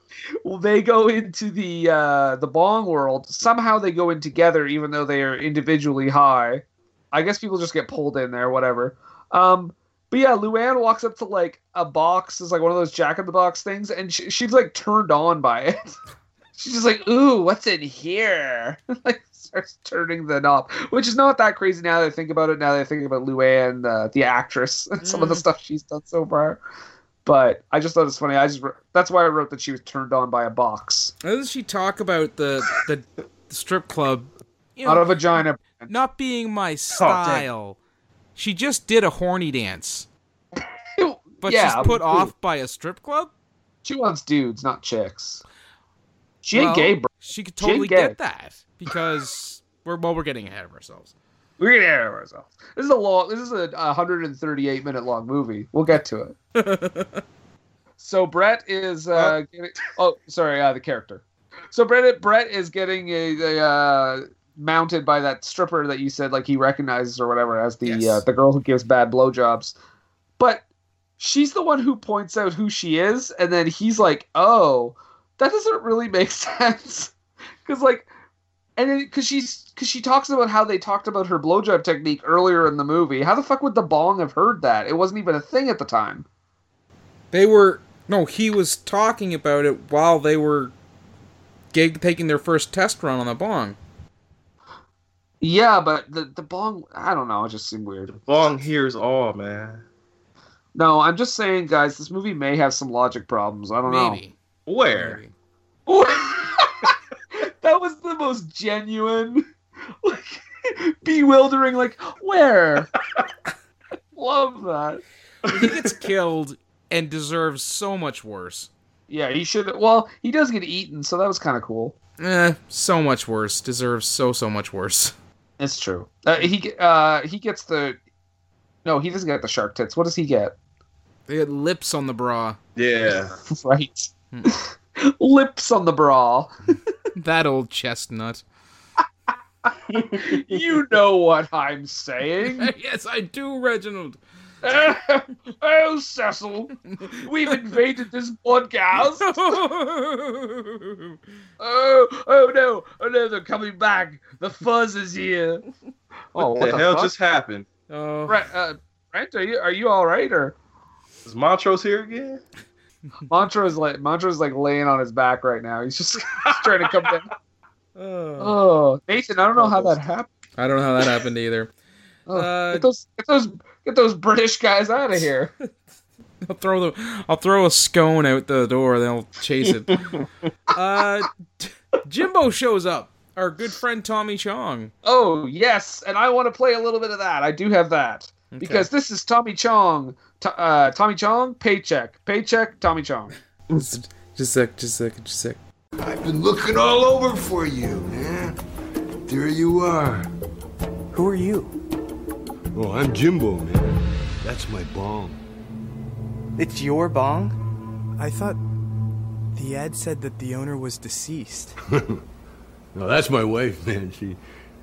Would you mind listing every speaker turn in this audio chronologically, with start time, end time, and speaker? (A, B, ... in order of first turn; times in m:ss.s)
0:00.4-0:15.9 A
0:16.6-0:26.6 A
0:25.0-0:25.4 B
0:27.2-0:31.1 A
0:31.2-0:37.8 B
0:34.9-0:36.0 A
0:37.0-0:37.5 C
0:38.4-0:40.1 B
0:41.0-0:42.3 A
0:41.4-0:43.3 B
0:43.8-0:45.4 A
0:46.4-0:48.2 A
0:46.5-0:51.1 B
0:51.6-0:56.4 A
0:56.6-0:57.2 B
0:58.0-1:09.8 A
1:07.8-1:08.2 B
1:10.4-1:10.6 A
1:11.2-1:17.1 A
1:17.6-1:18.1 A
1:18.8-1:26.2 A
1:27.3-1:30.7 B
1:31.7-1:33.8 B
1:35.4-1:38.1 A
1:38.1-1:39.8 C
1:40.8-1:44.2 A
1:43.8-1:44.4 B
1:44.7-1:45.2 C
1:44.9-1:45.3 B
1:45.9-1:49.5 A
1:50.0-1:52.9 A
1:54.2-1:55.0 A
1:55.5-1:55.9 C
1:55.5-1:58.7 B
1:59.1-2:02.0 A
2:02.2-2:05.1 B
2:05.6-2:08.0 A
2:08.8-2:10.5 A
2:11.3-2:12.6 B
2:12.8-2:13.3 C
2:13.5-2:16.6 A
2:17.2-2:18.4 B
2:19.9-2:20.4 C
2:20.0-2:22.7 A
2:22.4-2:24.2 B
2:24.6-2:29.4 A
2:29.0-2:31.2 B
2:31.6-2:35.6 A
2:36.4-2:37.1 A
2:36.4-2:37.7 C
2:37.9-2:38.4 B
2:38.3-2:40.6 A
2:41.2-2:42.4 C
2:43.3-2:47.3 A
2:48.0-2:48.6 B
2:48.4-2:50.3 A
2:50.6-2:51.7 B
2:52.3-2:55.5 A
2:52.3-2:52.9 B
2:56.4-3:00.0 B
2:59.6-3:00.2 C
3:00.7-3:04.9 B
3:05.0-3:13.3 A
3:08.5-3:08.9 B
3:13.7-3:15.6 B
3:16.0-3:18.6 D
3:19.3-3:20.3 D
3:21.1-3:21.8 E
3:22.7-3:25.4 D
3:26.6-3:27.6 E
3:28.2-3:28.6 E
3:29.6-3:31.8 E
3:32.0-3:32.2 D
3:33.0-3:34.4 D